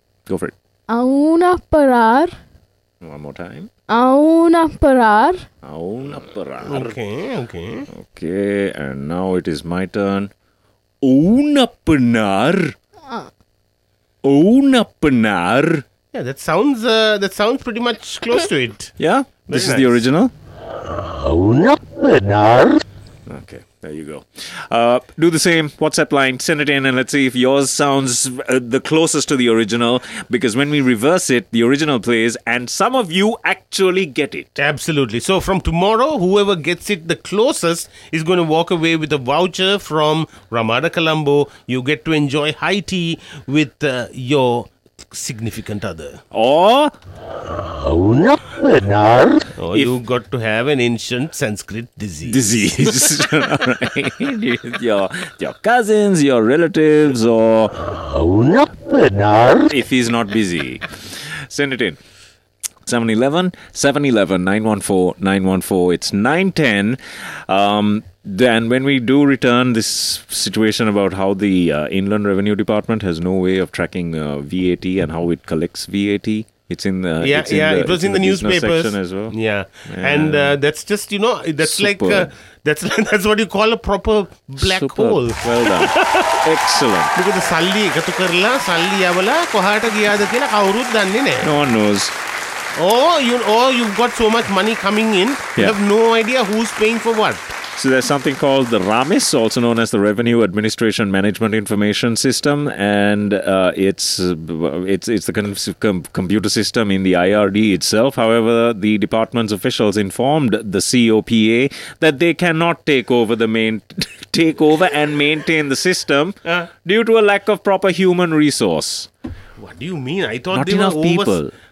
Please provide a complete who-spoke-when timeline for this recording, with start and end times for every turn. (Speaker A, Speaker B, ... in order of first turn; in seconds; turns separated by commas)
Speaker A: 0.3-0.5, Speaker B: 0.9-2.3, Speaker A: 3.0-3.7, Speaker B: 3.9-5.5, Speaker A: 5.6-7.0, Speaker C: 6.6-7.9, Speaker A: 7.9-10.3, Speaker A: 11.0-12.7, Speaker A: 14.2-15.8, Speaker C: 16.1-18.9, Speaker A: 19.0-20.3, Speaker C: 19.5-20.0, Speaker A: 23.3-34.5, Speaker C: 34.6-46.2, Speaker A: 46.3-46.9, Speaker C: 49.6-52.6, Speaker A: 52.3-57.8, Speaker A: 59.5-62.0, Speaker A: 62.9-79.4, Speaker C: 77.2-86.4, Speaker A: 79.9-80.6, Speaker A: 81.6-82.3, Speaker A: 84.6-87.1, Speaker C: 87.2-91.5, Speaker A: 91.4-92.2, Speaker C: 92.8-97.5, Speaker A: 97.8-119.1, Speaker C: 119.6-121.4, Speaker A: 120.5-121.5